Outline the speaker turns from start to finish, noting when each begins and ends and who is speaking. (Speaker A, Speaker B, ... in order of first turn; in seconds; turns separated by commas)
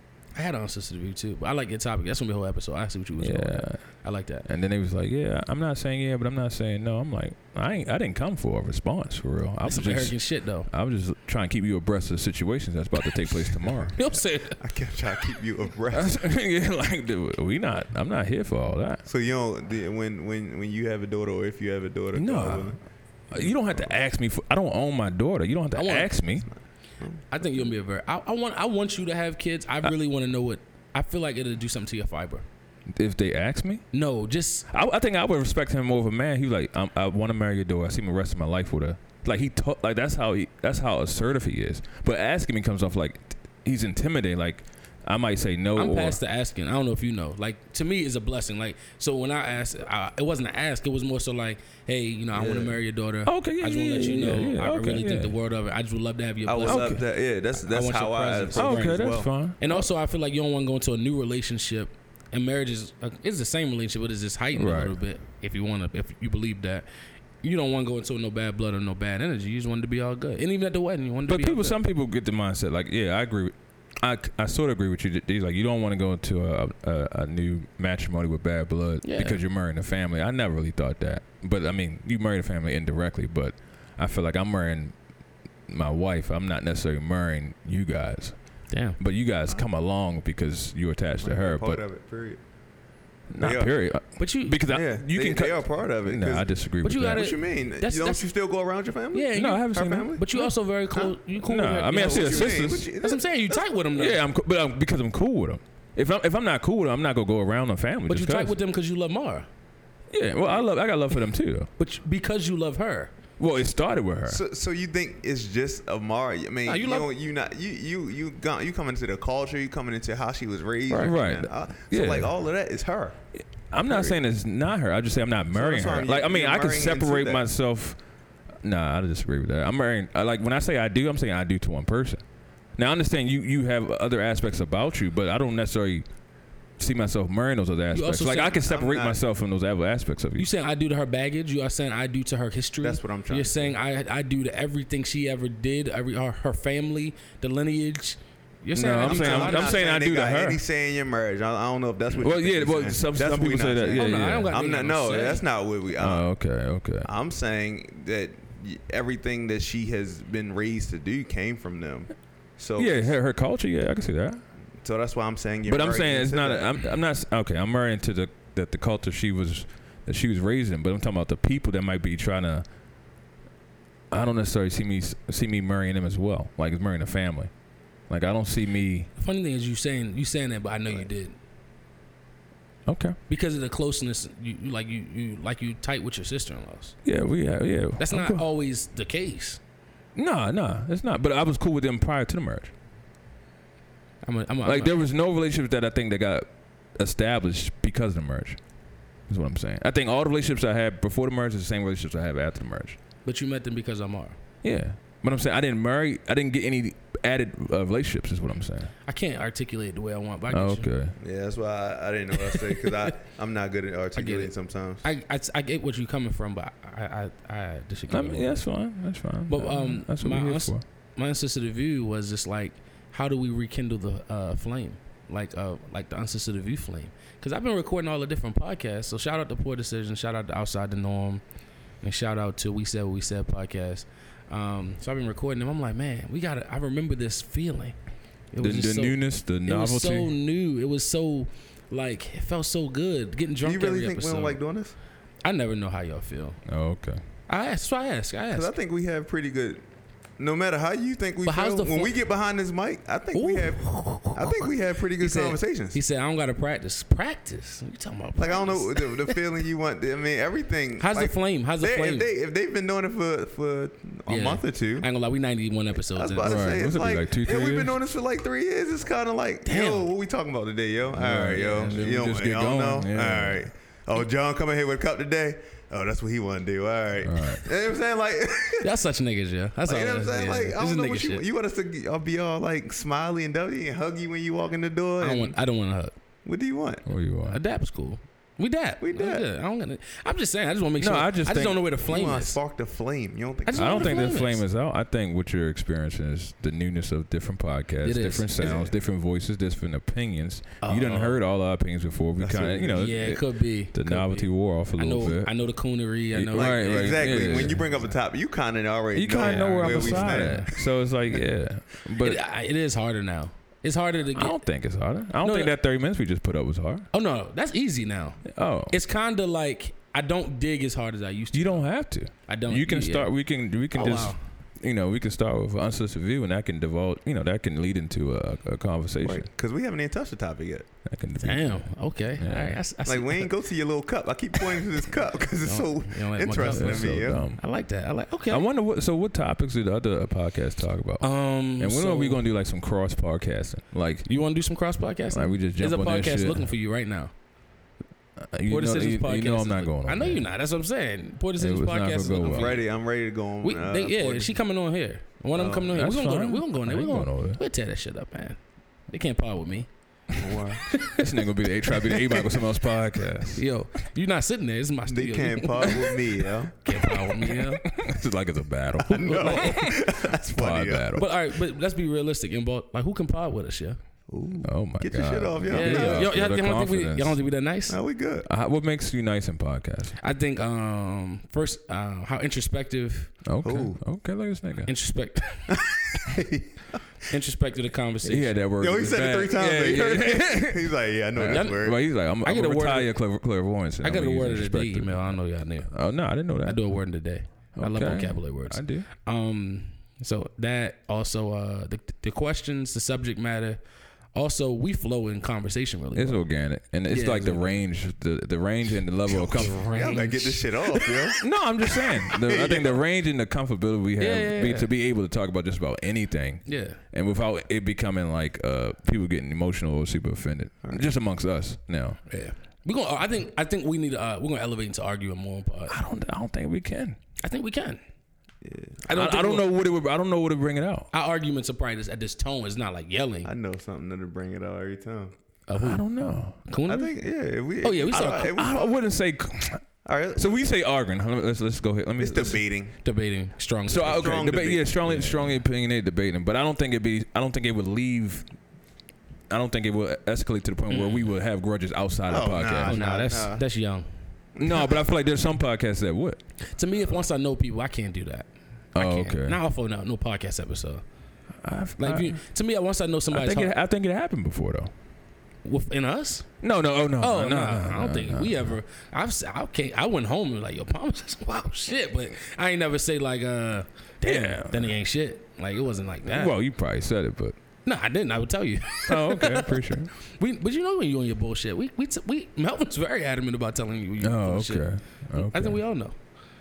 Speaker A: 0.3-4.5, Speaker B: 3.2-3.8, Speaker B: 4.5-14.1, Speaker A: 9.7-10.7, Speaker C: 13.6-14.0, Speaker A: 14.0-14.6, Speaker C: 14.6-16.1, Speaker B: 15.9-19.0, Speaker C: 19.1-22.8, Speaker B: 22.1-22.8, Speaker B: 23.3-26.5, Speaker C: 23.3-23.9, Speaker A: 25.8-26.1, Speaker A: 27.3-32.5, Speaker B: 33.0-33.9, Speaker A: 33.9-34.7, Speaker B: 34.7-46.2, Speaker A: 45.8-57.0, Speaker C: 52.3-52.8, Speaker B: 53.2-55.4, Speaker C: 56.5-59.3, Speaker B: 56.7-57.0, Speaker A: 57.6-66.9, Speaker B: 58.6-59.9, Speaker B: 64.5-65.0, Speaker A: 67.4-71.8, Speaker B: 71.3-84.9, Speaker A: 79.0-79.4, Speaker B: 85.7-88.4, Speaker A: 88.7-89.0, Speaker B: 89.0-91.8, Speaker C: 91.2-92.4, Speaker B: 93.3-97.3, Speaker C: 93.4-93.7, Speaker A: 94.2-94.6, Speaker C: 94.7-96.5, Speaker A: 96.8-98.2, Speaker C: 97.1-100.2, Speaker A: 99.1-104.2, Speaker B: 99.3-100.5, Speaker B: 101.4-102.9, Speaker C: 101.9-103.7, Speaker B: 104.0-108.6, Speaker A: 108.1-109.5, Speaker B: 110.1-111.7, Speaker A: 111.8-113.1, Speaker B: 113.4-114.4, Speaker C: 114.3-123.2, Speaker A: 116.7-117.1, Speaker B: 120.9-122.3, Speaker B: 123.4-128.0, Speaker C: 123.9-124.2, Speaker C: 125.5-127.5, Speaker B: 128.6-132.2, Speaker B: 132.8-136.1, Speaker B: 136.8-140.5, Speaker A: 137.9-138.6, Speaker C: 138.6-139.2, Speaker A: 140.4-149.8, Speaker C: 142.8-143.8, Speaker B: 148.8-150.6, Speaker C: 148.8-156.3, Speaker B: 152.2-154.5, Speaker A: 154.0-155.4, Speaker B: 156.0-157.1, Speaker C: 157.0-163.2, Speaker B: 162.8-164.4, Speaker C: 164.8-166.7, Speaker B: 165.7-172.7, Speaker B: 174.1-177.5, Speaker B: 178.1-179.1, Speaker A: 179.2-181.4, Speaker B: 182.9-183.2, Speaker A: 183.3-187.0, Speaker B: 187.1-188.4, Speaker A: 188.0-189.6, Speaker B: 190.2-192.7, Speaker A: 194.2-195.0, Speaker B: 194.7-198.6, Speaker B: 199.3-203.0, Speaker A: 203.2-204.4, Speaker B: 204.6-208.9, Speaker A: 209.1-210.9, Speaker B: 210.5-211.2, Speaker C: 211.2-215.1, Speaker A: 212.4-213.1, Speaker A: 214.2-218.6, Speaker B: 218.1-220.8, Speaker A: 219.5-231.4, Speaker A: 232.0-238.0, Speaker A: 238.5-244.6, Speaker B: 238.6-240.3, Speaker C: 243.6-244.9, Speaker A: 245.4-246.6, Speaker B: 246.7-247.2, Speaker A: 247.5-248.7, Speaker C: 248.5-249.8, Speaker C: 250.4-256.0, Speaker A: 251.4-252.2, Speaker A: 253.3-259.4, Speaker C: 258.4-265.1, Speaker A: 261.0-262.3, Speaker A: 264.3-266.6, Speaker C: 266.1-278.9, Speaker B: 266.4-267.9, Speaker A: 269.6-270.1, Speaker B: 271.2-273.6, Speaker A: 271.5-272.0, Speaker B: 277.2-277.7, Speaker A: 278.8-281.5, Speaker C: 279.9-285.6, Speaker A: 285.2-286.1, Speaker C: 286.4-287.1, Speaker B: 287.1-287.6, Speaker A: 287.5-292.6, Speaker C: 289.0-289.5, Speaker B: 291.0-291.9, Speaker C: 292.1-294.3, Speaker A: 293.7-294.6, Speaker B: 293.7-305.5, Speaker A: 298.0-298.8, Speaker C: 298.6-299.0, Speaker A: 300.8-301.4, Speaker C: 302.4-303.2, Speaker A: 302.9-308.1, Speaker B: 306.3-307.8, Speaker C: 306.6-310.9, Speaker B: 309.1-312.4, Speaker A: 309.4-310.7, Speaker A: 312.2-314.6, Speaker B: 314.3-317.1, Speaker A: 315.4-315.7, Speaker A: 317.1-321.9, Speaker B: 318.5-319.0, Speaker B: 321.5-329.5, Speaker A: 322.5-323.3, Speaker A: 323.9-324.4, Speaker C: 329.2-330.9, Speaker B: 331.1-331.9, Speaker A: 331.4-333.5, Speaker B: 332.4-332.8, Speaker C: 333.1-337.5, Speaker A: 335.6-338.7, Speaker B: 336.6-337.6, Speaker B: 338.5-344.3, Speaker A: 341.2-342.4, Speaker A: 344.3-347.3, Speaker B: 345.3-346.7, Speaker B: 348.5-350.5, Speaker A: 348.7-352.9, Speaker B: 351.6-352.8, Speaker C: 352.4-354.6, Speaker A: 353.6-358.6, Speaker C: 355.5-355.9, Speaker B: 355.7-357.6, Speaker A: 359.1-359.9, Speaker C: 360.4-360.9, Speaker A: 360.8-361.2, Speaker B: 361.0-363.6, Speaker A: 362.1-362.4, Speaker A: 363.5-366.2, Speaker C: 365.1-366.8, Speaker A: 366.8-367.9, Speaker B: 367.1-371.3, Speaker C: 369.0-371.2, Speaker A: 369.1-369.8, Speaker A: 371.1-374.0, Speaker C: 374.3-376.4, Speaker B: 374.6-377.4, Speaker A: 375.7-378.0, Speaker C: 377.9-378.5, Speaker B: 378.5-380.2, Speaker A: 380.2-383.4, Speaker B: 383.4-384.9, Speaker C: 383.6-384.0, Speaker A: 384.9-385.8, Speaker C: 385.7-387.0, Speaker A: 387.3-388.6, Speaker B: 388.2-396.9, Speaker C: 388.8-392.0, Speaker A: 391.5-391.8, Speaker A: 392.4-393.1, Speaker A: 394.0-395.9, Speaker A: 396.6-403.8, Speaker B: 397.8-399.1, Speaker A: 404.4-406.4, Speaker B: 406.1-409.8, Speaker A: 407.1-407.7, Speaker C: 409.3-413.0, Speaker A: 409.3-411.3, Speaker B: 411.4-422.2, Speaker A: 414.2-414.9, Speaker A: 416.7-417.0, Speaker C: 420.8-421.1, Speaker A: 422.3-426.0, Speaker B: 425.9-427.2, Speaker A: 427.4-428.0, Speaker C: 428.6-429.1, Speaker A: 429.1-429.7, Speaker B: 429.1-431.1, Speaker A: 431.1-433.5, Speaker C: 433.4-435.4, Speaker A: 435.7-436.1, Speaker B: 435.7-436.6, Speaker A: 436.7-437.1, Speaker C: 436.9-439.0, Speaker A: 437.8-438.6, Speaker B: 438.1-442.6, Speaker C: 440.1-440.6, Speaker C: 442.2-442.9, Speaker A: 443.0-445.4, Speaker B: 443.9-448.5, Speaker C: 444.0-445.2, Speaker B: 449.5-453.1, Speaker A: 450.9-451.2, Speaker C: 452.3-453.6, Speaker A: 452.9-454.1, Speaker C: 454.6-455.0, Speaker B: 454.6-456.4, Speaker A: 456.6-461.0, Speaker B: 458.9-459.6, Speaker B: 461.6-462.4, Speaker A: 462.0-463.7, Speaker B: 463.3-464.9, Speaker A: 465.6-466.5, Speaker B: 466.6-468.7, Speaker A: 467.2-476.6, Speaker B: 474.2-474.9, Speaker B: 476.2-477.6, Speaker A: 477.9-486.2, Speaker B: 479.1-480.1, Speaker B: 484.2-485.8